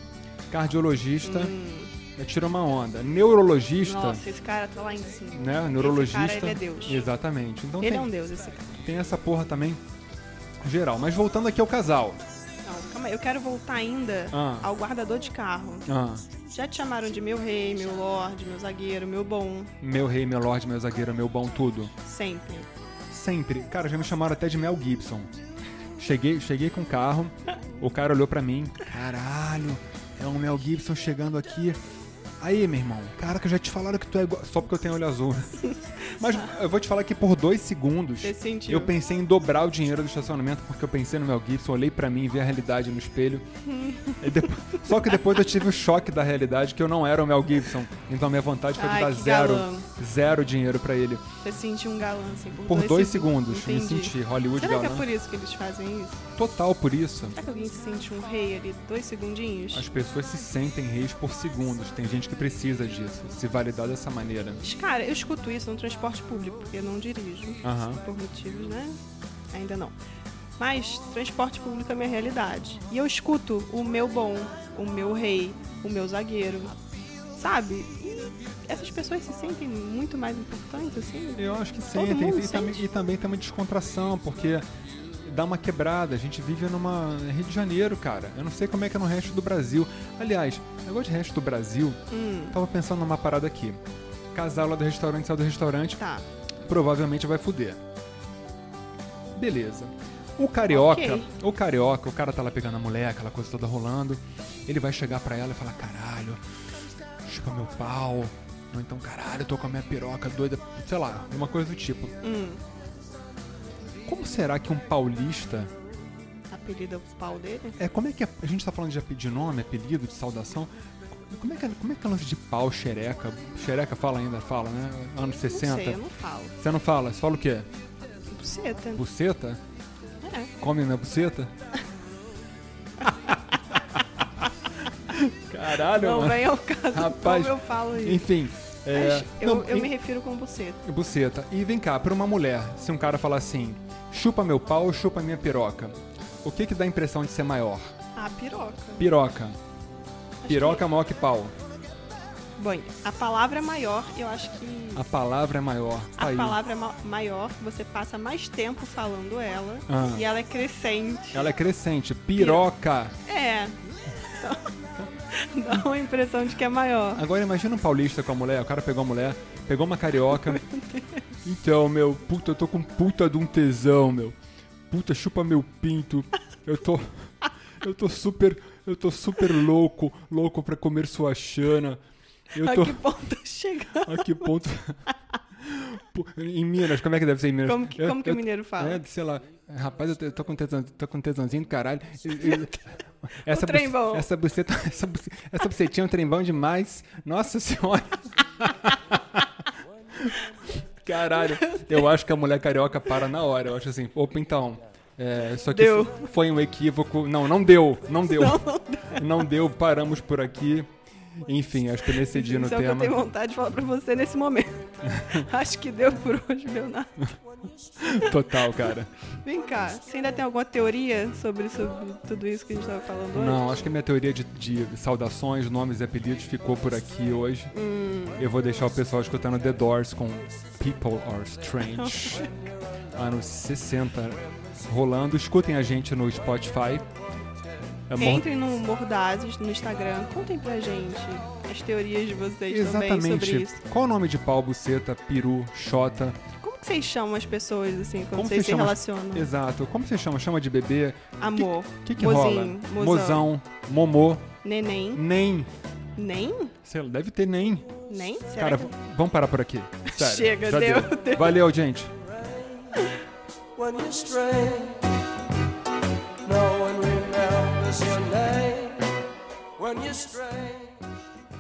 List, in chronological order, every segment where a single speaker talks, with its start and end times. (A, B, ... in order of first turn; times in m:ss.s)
0:00.5-0:01.5 A
0:01.2-0:02.0 B
0:02.1-0:04.2 A
0:03.8-0:07.0 B
0:05.3-0:08.1 A
0:07.8-0:08.8 B
0:08.8-0:09.8 A
0:10.6-0:12.2 A
0:12.6-0:15.9 B
0:14.3-0:14.7 A
0:15.9-0:16.3 A
0:16.5-0:19.7 B
0:19.8-0:21.9 A
0:22.0-0:22.7 B
0:23.1-0:25.3 A
0:26.0-0:31.8 A
0:32.4-0:43.4 A
0:38.2-0:38.9 B
0:43.6-0:44.2 B
0:44.2-0:51.2 A
0:48.8-0:49.9 B
0:51.4-0:56.2 B
0:52.6-0:55.1 A
0:56.4-0:57.4 A
0:57.3-0:59.9 B
0:59.7-1:04.6 A
1:04.6-1:09.0 B
1:07.6-1:08.0 A
1:09.5-1:10.0 B
1:10.6-1:16.8 B
1:17.4-1:22.8 B
1:21.4-1:24.6 A
1:25.2-1:33.8 A
1:32.1-1:32.6 B
1:34.3-1:36.0 A
1:36.0-1:36.2 B
1:36.6-1:37.8 A
1:39.4-1:46.4 A
1:40.7-1:41.3 B
1:47.2-1:52.1 A
1:52.2-1:52.6 B
1:54.0-1:55.7 A
1:56.5-1:57.8 B
1:57.8-2:06.0 A
2:05.4-2:06.5 B
2:06.6-2:07.7 A
2:08.3-2:09.0 B
2:09.0-2:09.6 A
2:10.2-2:10.5 B
2:10.6-2:11.5 A
2:13.0-2:13.3 A
2:13.9-2:14.5 A
2:15.1-2:19.9 A
2:15.9-2:18.3 B
2:18.9-2:20.8 B
2:20.8-2:27.9 A
2:28.1-2:29.1 B
2:29.0-2:29.6 A
2:30.4-2:30.8 B
2:30.5-2:31.5 A
2:32.6-2:35.0 B
2:34.9-2:36.6 A
2:36.2-2:41.5 B
2:39.9-2:40.2 A
2:41.3-2:43.1 A
2:42.4-2:42.6 B
2:43.2-2:47.2 B
2:47.1-2:50.6 A
2:50.5-2:51.1 B
2:51.4-2:54.4 A
2:54.9-3:02.0 A
3:02.5-3:03.0 A
3:02.5-3:04.5 B
3:04.0-3:05.0 A
3:05.6-3:19.5 A
3:07.6-3:09.0 B
3:13.4-3:14.3 B
3:21.0-3:30.9 A
3:21.6-3:21.9 B
3:25.6-3:26.3 B
3:28.3-3:29.3 B
3:31.4-3:33.2 A
3:32.3-3:37.4 B
3:35.1-3:35.4 A
3:38.0-3:39.1 A
3:39.4-3:43.8 B
3:43.3-3:47.7 A
3:47.7-3:48.4 B
3:48.4-3:52.5 A
3:52.0-3:52.5 B
3:53.1-3:57.1 A
3:58.1-3:58.5 A
3:58.2-4:03.8 B
4:02.7-4:06.4 A
4:06.6-4:09.5 B
4:08.3-4:14.4 A
4:11.4-4:13.5 B
4:14.6-4:15.2 B
4:15.1-4:15.7 A
4:16.2-4:16.7 B
4:16.8-4:17.9 A
4:18.1-4:18.9 B
4:18.6-4:22.1 A
4:20.1-4:21.6 B
4:23.8-4:25.0 C
4:26.4-4:29.1 C
4:29.8-4:30.9 C